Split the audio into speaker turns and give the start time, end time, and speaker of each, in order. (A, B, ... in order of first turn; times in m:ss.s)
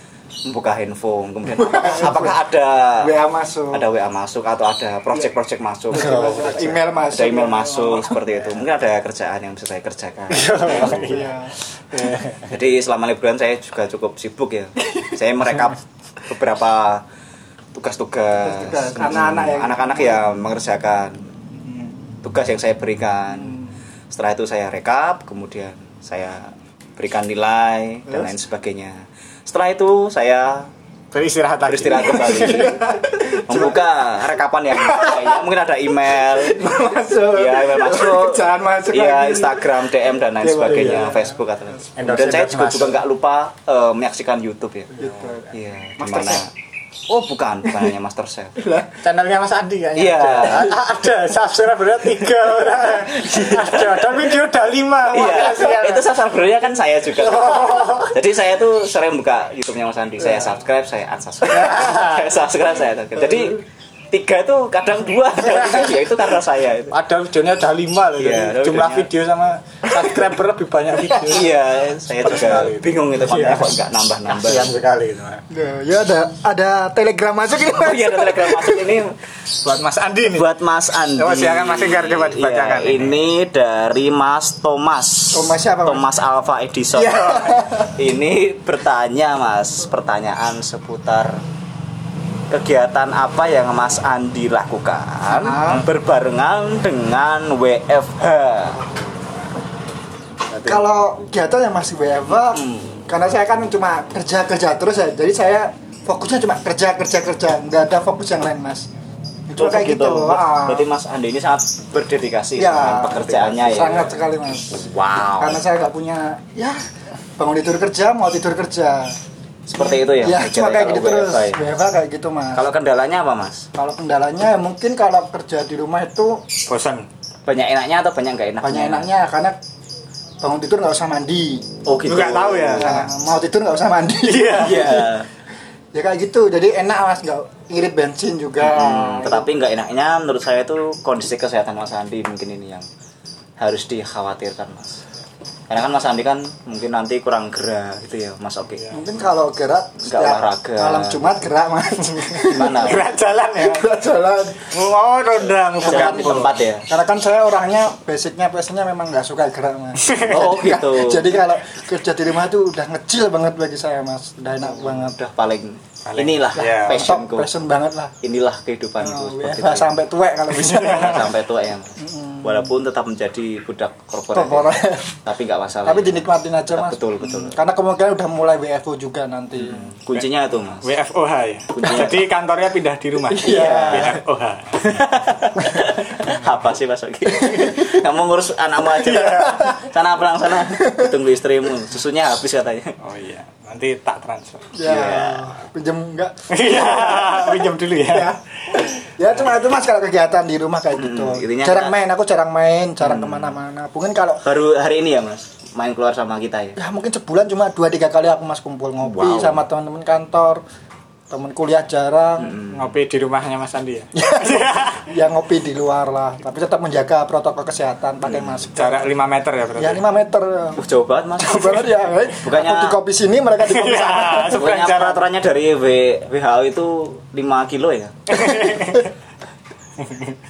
0:00.4-0:03.1 A
0:01.5-0:02.4 B
0:03.0-0:03.9 B
0:03.7-0:11.2 A
0:05.9-0:08.2 B
0:05.9-0:06.7 C
0:10.3-0:11.3 C
0:10.7-0:11.5 B
0:11.9-0:12.5 C
0:12.5-0:17.0 A
0:17.7-0:21.3 A
0:18.4-0:20.2 B
0:22.2-0:23.6 A
0:24.1-0:30.7 A
0:28.0-0:28.3 B
0:31.1-0:32.8 C
0:31.6-0:46.5 A
0:32.2-0:33.9 B
0:34.7-0:35.4 B
0:36.1-0:39.8 B
0:40.4-0:41.2 B
0:40.7-0:41.1 C
0:42.0-0:43.0 C
0:45.0-0:46.4 B
0:47.1-0:48.6 A
0:48.6-0:49.0 B
0:49.0-0:56.2 C
0:49.9-0:50.8 A
0:53.0-0:54.3 A
0:55.0-1:06.9 A
0:57.2-0:58.1 C
1:01.5-1:02.4 C
1:05.4-1:06.0 C
1:06.9-1:11.6 C
1:08.2-1:09.1 A
1:11.2-1:14.8 A
1:12.1-1:13.8 C
1:14.3-1:15.4 C
1:15.5-1:19.0 B
1:17.6-1:19.2 A
1:19.6-1:20.4 C
1:20.3-1:31.4 A
1:21.2-1:23.2 C
1:25.3-1:26.1 B
1:27.0-1:28.0 B
1:27.0-1:27.5 C
1:32.5-1:38.8 A
1:35.3-1:35.9 B
1:40.5-1:40.8 A
1:40.6-1:48.9 B
1:42.4-1:43.0 A
1:49.5-1:50.9 B
1:49.5-1:54.1 A
1:52.6-1:56.8 B
1:54.7-1:55.6 A
1:57.4-1:59.2 B
1:59.6-2:01.6 A
1:59.8-2:02.6 B
2:02.5-2:03.7 A
2:03.7-2:06.4 B
2:06.7-2:07.1 C
2:07.4-2:09.1 A
2:08.6-2:09.6 B
2:10.4-2:11.7 B
2:11.8-2:13.0 A
2:12.0-2:13.1 C
2:12.8-2:15.1 B
2:14.2-2:15.1 C
2:14.6-2:15.3 A
2:15.9-2:19.5 B
2:18.6-2:22.9 A
2:23.6-2:25.0 A
2:25.7-2:28.9 A
2:28.7-2:29.0 C
2:28.9-2:32.9 B
2:30.0-2:31.4 A
2:32.4-2:33.9 C
2:32.5-2:33.1 A
2:33.6-2:34.7 B
2:34.7-2:36.6 C
2:35.8-2:45.2 B
2:35.8-2:36.8 A
2:40.0-2:40.4 C
2:40.3-2:41.4 A
2:44.6-2:47.5 A
2:46.0-2:47.1 C
2:46.6-2:48.1 B
2:48.2-2:50.0 A
2:49.0-2:51.3 B
2:50.6-2:51.3 C
2:50.7-2:57.6 A
2:52.0-2:52.7 B
2:54.3-2:55.2 B
2:55.8-2:59.9 B
2:59.6-3:00.9 A
3:00.8-3:05.0 C
3:01.7-3:02.3 A
3:03.3-3:04.2 B
3:03.4-3:04.2 A
3:04.8-3:13.0 A
3:06.2-3:06.4 C
3:07.4-3:08.0 B
3:09.0-3:09.6 C
3:09.2-3:09.8 B
3:10.6-3:11.1 B
3:13.0-3:14.7 C
3:14.7-3:24.4 B
3:14.8-3:15.5 A
3:16.5-3:18.3 C
3:20.9-3:21.9 A
3:23.0-3:23.6 A
3:24.4-3:26.8 A
3:26.8-3:30.6 B
3:29.0-3:29.6 A
3:31.3-3:32.6 B
3:32.4-3:32.9 A
3:32.6-3:35.1 C
3:34.1-3:39.1 B
3:38.2-3:38.7 A
3:38.7-3:40.0 C
3:39.8-3:40.8 B
3:40.8-3:43.0 A
3:41.4-3:44.6 B
3:43.7-3:45.2 C
3:44.5-3:48.4 A
3:48.3-3:49.1 C
3:50.0-3:50.4 C